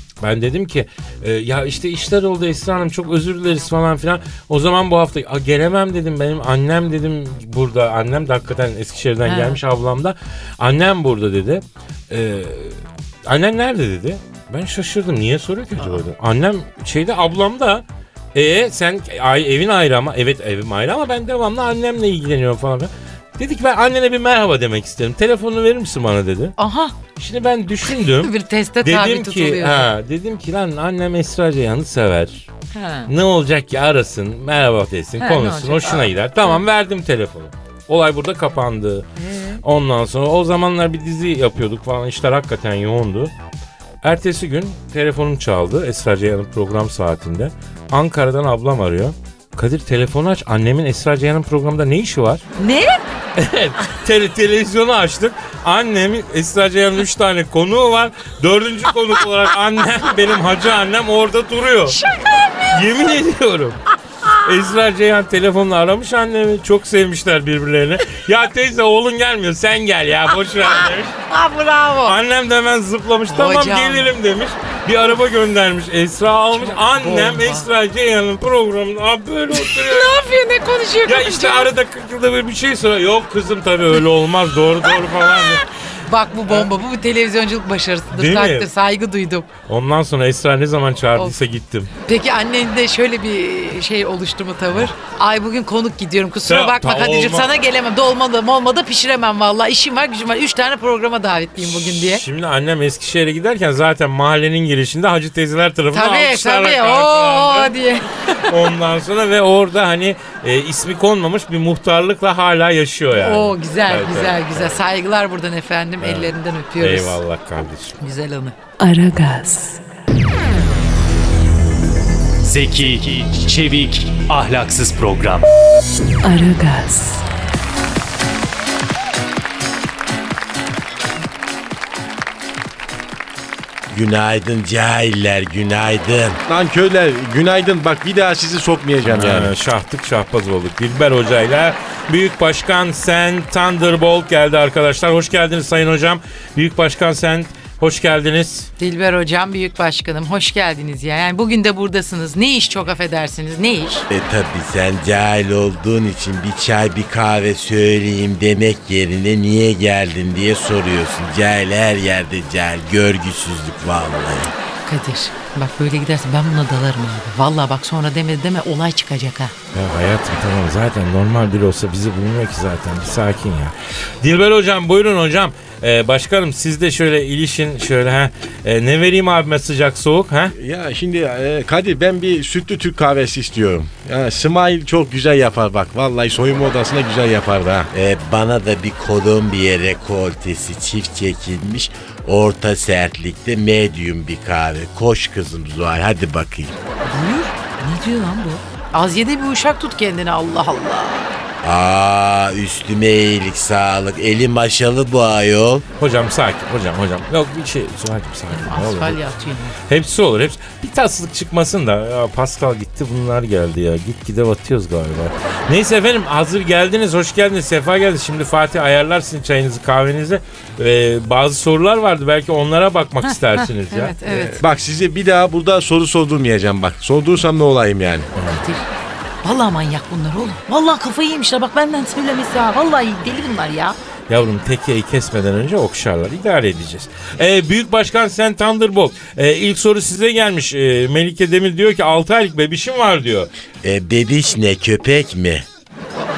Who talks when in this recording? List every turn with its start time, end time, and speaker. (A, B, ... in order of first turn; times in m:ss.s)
0:00.2-0:26.6 A
0:09.2-0:09.6 B
0:26.6-0:26.9 B
0:27.2-0:32.4 A
0:27.9-0:29.9 B
0:32.7-0:33.1 B
0:33.1-0:39.1 A
0:35.2-0:36.6 B
0:39.2-0:39.6 B
0:39.6-0:43.3 A
0:44.0-0:52.4 A
0:52.6-0:53.0 B
0:53.4-1:02.0 A
1:01.9-1:03.2 B
1:02.7-1:11.2 A
1:10.7-1:12.2 B
1:12.0-1:20.2 A
1:13.3-1:14.1 B
1:16.5-1:17.7 B
1:19.5-1:21.7 B
1:21.1-1:25.6 A
1:25.2-1:29.5 B
1:28.1-1:28.7 A
1:29.7-1:31.9 A
1:32.0-1:42.2 B
1:36.4-1:37.5 A
1:41.6-1:47.8 A
1:45.9-1:48.6 B
1:48.3-1:54.8 A
1:53.1-1:57.2 B
1:56.0-1:58.0 A
1:58.0-1:58.6 B
1:58.8-1:59.8 C
2:02.4-2:05.5 D
2:06.2-2:07.2 C
2:13.9-2:16.4 E
2:16.5-2:19.5 F
2:19.0-2:28.7 A
2:28.8-2:34.0 B
2:34.1-2:44.5 E
2:44.8-2:49.5 B
2:49.7-3:00.6 A
3:00.5-3:07.9 F
3:07.9-3:16.8 E
3:17.0-3:21.4 B
3:21.6-3:25.9 E
3:26.0-3:29.2 A
3:28.5-3:29.8 B
3:29.9-3:44.2 A
3:43.2-3:44.6 B
3:44.4-3:48.3 F
3:48.4-3:48.6 A
3:48.4-3:48.9 B
3:49.4-3:54.0 B
3:54.3-4:03.5 A
4:03.8-4:05.7 E